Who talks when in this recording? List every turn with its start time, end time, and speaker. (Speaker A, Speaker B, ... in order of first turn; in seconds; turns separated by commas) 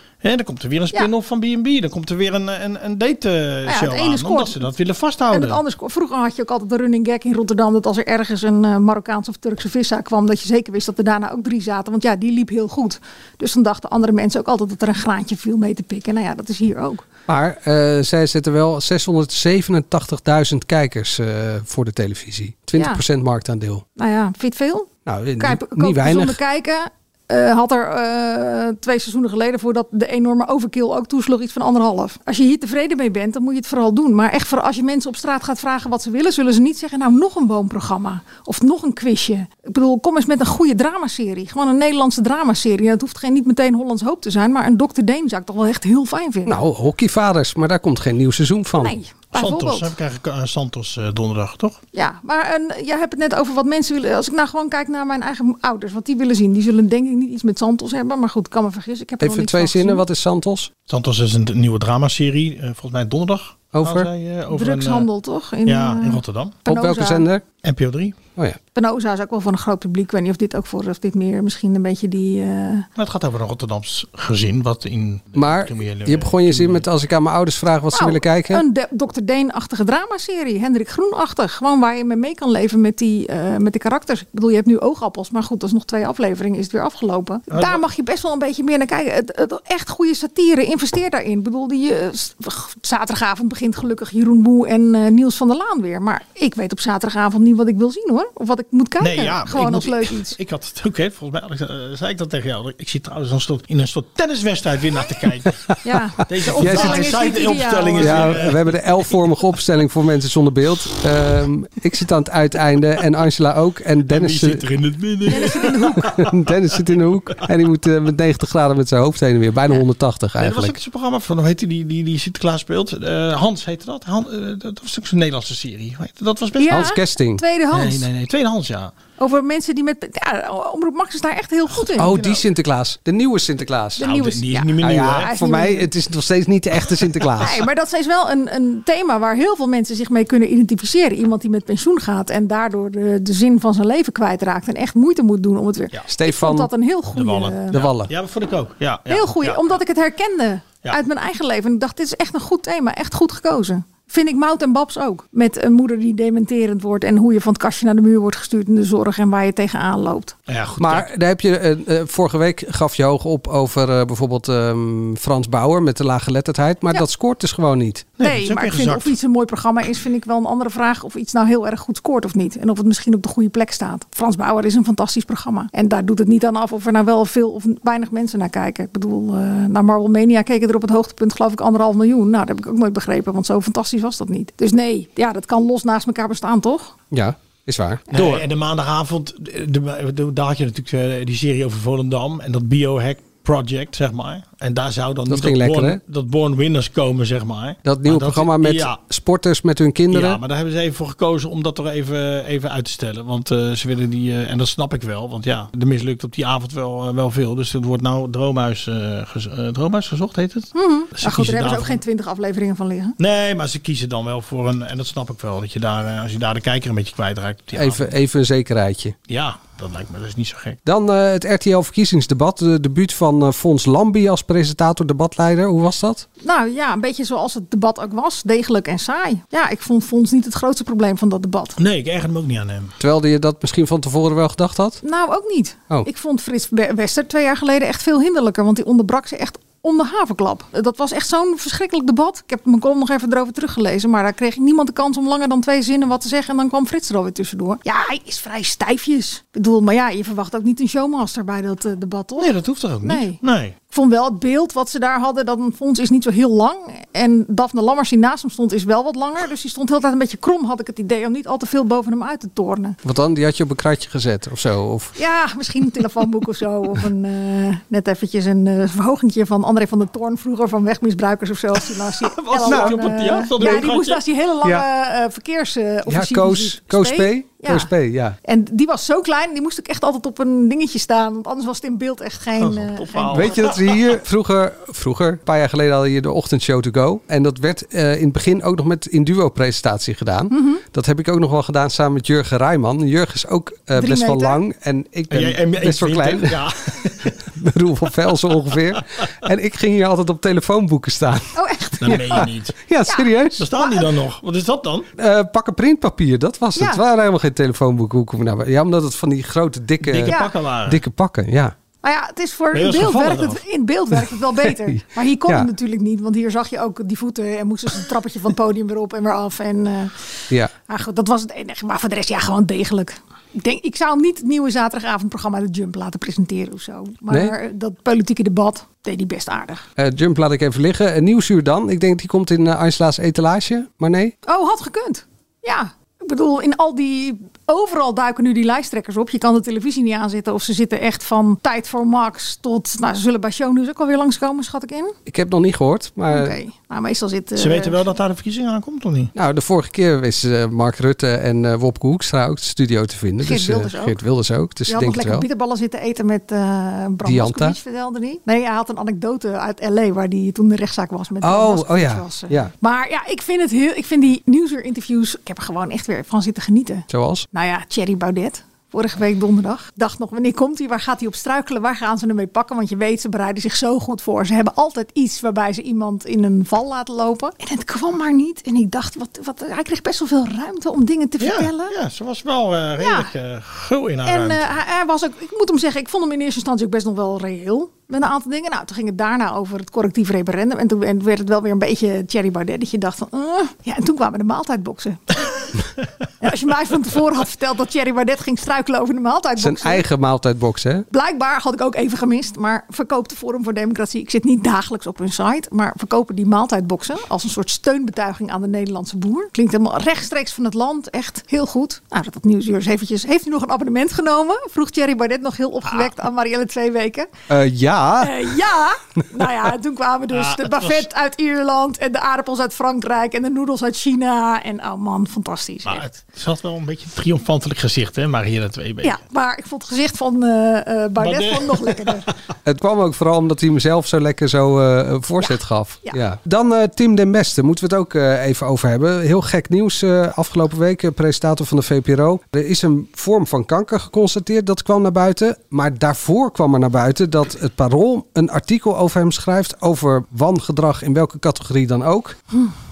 Speaker A: 0.2-5.6, Speaker B: 3.7-4.6, Speaker B: 5.3-17.1, Speaker C: 17.3-23.8, Speaker B: 24.0-46.6, Speaker C: 25.1-26.4, Speaker C: 46.5-49.0, Speaker B: 48.8-49.9, Speaker A: 49.3-51.8, Speaker B: 51.9-60.0, Speaker C: 59.2-60.7, Speaker A: 60.9-65.1, Speaker C: 63.7-64.1, Speaker B: 64.5-67.3, Speaker A: 65.7-66.6, Speaker C: 66.7-67.4, Speaker A: 67.6-68.2, Speaker B: 68.8-72.9, Speaker A: 73.0-76.9, Speaker C: 75.3-78.6, Speaker B: 77.9-100.4, Speaker A: 87.5-87.8, Speaker A: 99.0-105.6, Speaker B: 105.8-108.5, Speaker A: 106.3-108.8, Speaker C: 106.6-107.3, Speaker C: 108.0-114.6, Speaker A: 114.1-117.4, Speaker B: 115.3-116.1, Speaker C: 116.0-120.8, Speaker A: 120.4-126.9, Speaker B: 126.6-128.1, Speaker C: 126.7-127.4, Speaker A: 127.7-128.9, Speaker B: 129.2-132.2, Speaker A: 131.9-132.4, Speaker C: 132.0-134.1, Speaker B: 134.0-135.9, Speaker A: 134.0-135.3, Speaker C: 134.8-137.6, Speaker B: 137.4-147.8, Speaker C: 146.1-146.7, Speaker A: 147.2-149.8, Speaker C: 147.7-148.1, Speaker B: 149.1-160.4, Speaker A: 160.5-161.1, Speaker C: 160.8-168.1, Speaker A: 168.2-169.1, Speaker B: 168.2-186.9, Speaker C: 187.1-188.5, Speaker A: 188.1-199.0, Speaker C: 195.3-196.0, Speaker C: 197.8-200.4, Speaker A: 200.1-212.0, Speaker B: 210.8-213.2, Speaker A: 213.2-218.1, Speaker C: 217.7-219.2, Speaker A: 219.3-220.8, Speaker C: 220.8-226.3, Speaker B: 226.4-231.8, Speaker A: 231.8-233.0, Speaker C: 233.0-235.0, Speaker B: 235.0-253.4, Speaker A: 252.4-253.8, Speaker B: 253.9-263.0, Speaker C: 263.0-265.1, Speaker B: 265.2-277.9, Speaker A: 271.8-274.2, Speaker C: 272.7-273.1, Speaker C: 276.1-278.4, Speaker B: 278.4-283.7, Speaker A: 282.6-284.1, Speaker C: 283.3-296.6, Speaker B: 290.5-290.8, Speaker B: 294.0-294.6, Speaker A: 295.3-297.4, Speaker C: 297.4-303.7, Speaker B: 301.6-302.5, Speaker A: 302.0-302.8, Speaker B: 303.1-304.1, Speaker A: 303.6-305.1, Speaker C: 305.2-311.8, Speaker B: 306.8-307.0, Speaker A: 310.0-311.0, Speaker B: 310.3-310.5, Speaker B: 312.0-320.3, Speaker A: 312.7-313.6, Speaker B: 320.9-329.8, Speaker C: 330.0-334.3, Speaker B: 334.5-345.2, Speaker C: 345.3-346.6, Speaker B: 346.3-348.0, Speaker A: 347.6-349.3, Speaker C: 349.4-355.5, Speaker B: 353.4-354.2, Speaker B: 354.9-381.9, Speaker C: 357.2-357.8, Speaker C: 361.4-362.7, Speaker C: 367.1-367.5, Speaker A: 381.4-384.7, Speaker B: 383.0-383.3, Speaker B: 384.2-395.7, Speaker B: 396.4-400.0, Speaker C: 399.6-401.1, Speaker B: 401.1-417.3, Speaker C: 417.5-418.5, Speaker B: 418.2-426.1, Speaker A: 420.3-421.1, Speaker A: 425.9-429.2, Speaker B: 429.0-432.3, Speaker A: 431.2-432.2, Speaker C: 432.6-452.4, Speaker B: 435.4-436.2